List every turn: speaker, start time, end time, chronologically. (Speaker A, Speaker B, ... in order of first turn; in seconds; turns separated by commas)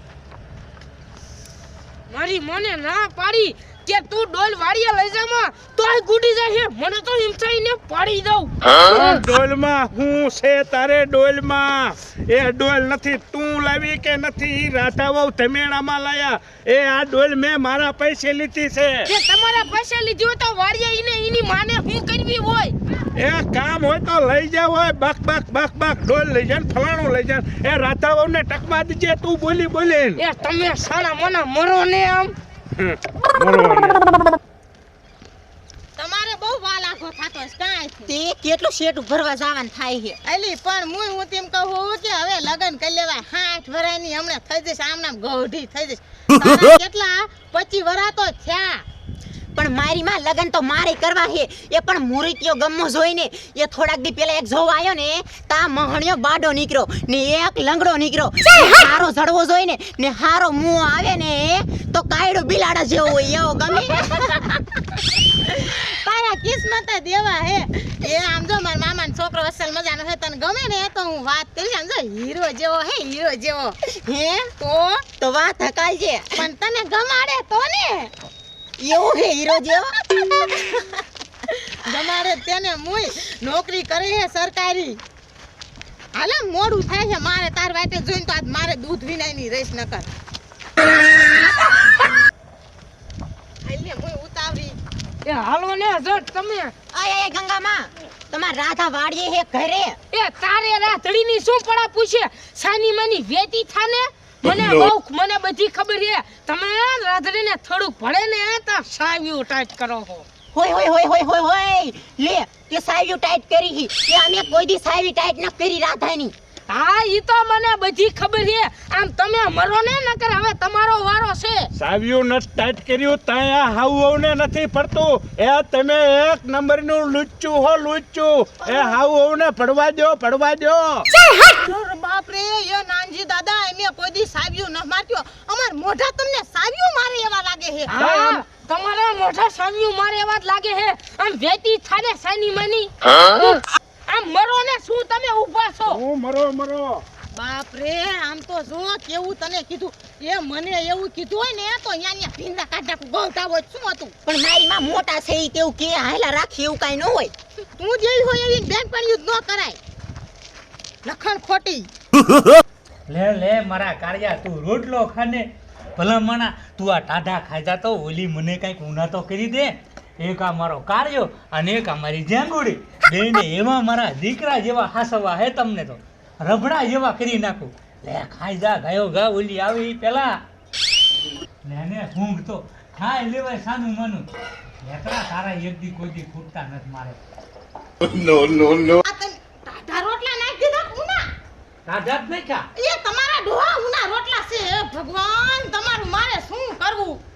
Speaker A: 2.1-9.2, Speaker B: 8.9-19.1, Speaker A: 19.1-22.8, Speaker B: 23.2-30.2, Speaker A: 30.2-32.3, Speaker B: 32.8-34.0, Speaker C: 36.0-38.2, Speaker D: 38.1-40.2, Speaker C: 40.2-48.9, Speaker D: 49.6-64.1, Speaker C: 63.7-64.4, Speaker C: 65.4-75.1, Speaker D: 75.2-76.5, Speaker C: 76.3-78.1, Speaker D: 78.8-79.9, Speaker C: 78.9-80.8, Speaker C: 81.5-85.0, Speaker C: 86.1-90.1, Speaker C: 93.6-94.8, Speaker A: 95.2-96.7, Speaker D: 96.9-100.0, Speaker A: 100.1-110.3, Speaker D: 110.5-116.3, Speaker A: 116.7-121.7, Speaker B: 121.8-131.1, Speaker C: 128.7-128.9, Speaker C: 131.2-138.0, Speaker A: 137.9-146.0, Speaker B: 138.0-138.4, Speaker B: 145.9-147.0, Speaker C: 147.3-154.2, Speaker D: 154.3-157.3, Speaker C: 157.8-159.8, Speaker C: 161.0-161.9, Speaker E: 163.1-180.3, Speaker E: 181.7-184.3, Speaker E: 184.8-187.2, Speaker C: 188.3-191.3, Speaker E: 191.9-192.7, Speaker C: 192.8-197.2